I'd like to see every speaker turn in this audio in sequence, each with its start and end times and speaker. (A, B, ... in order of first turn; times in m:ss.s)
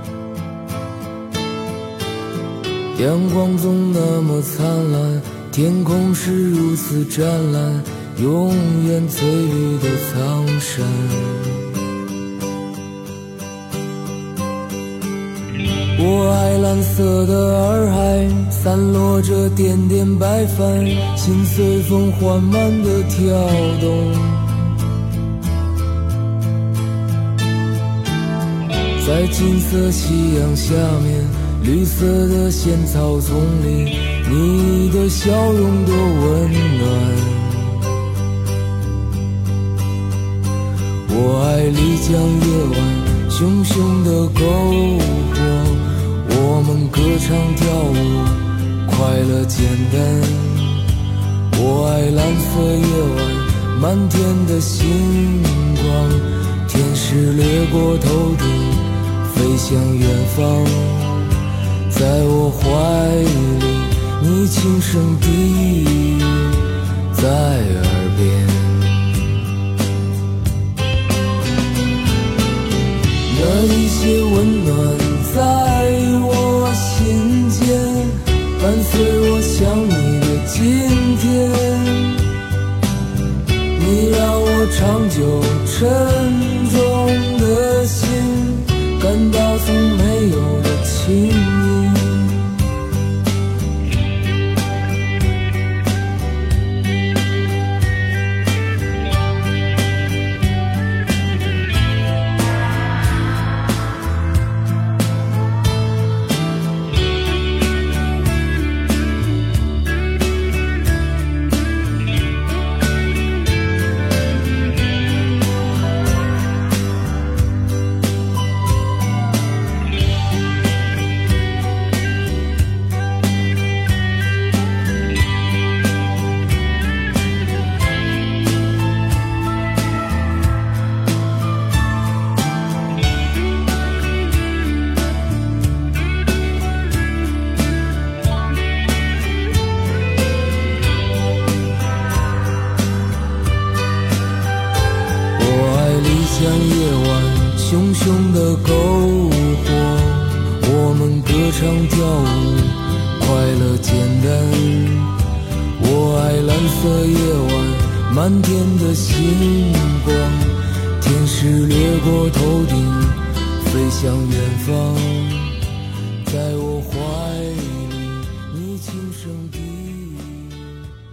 0:02.9-0:11.7 A
0:15.9-0:24.7 A
0:29.0-0:37.8 A
0:41.1-0:50.8 A
0:51.5-1:01.4 A
1:01.9-1:09.2 A
1:13.2-1:22.3 A
1:23.8-1:32.5 A
2:25.4-2:35.2 A
2:35.8-2:45.6 A
2:46.2-2:50.8 A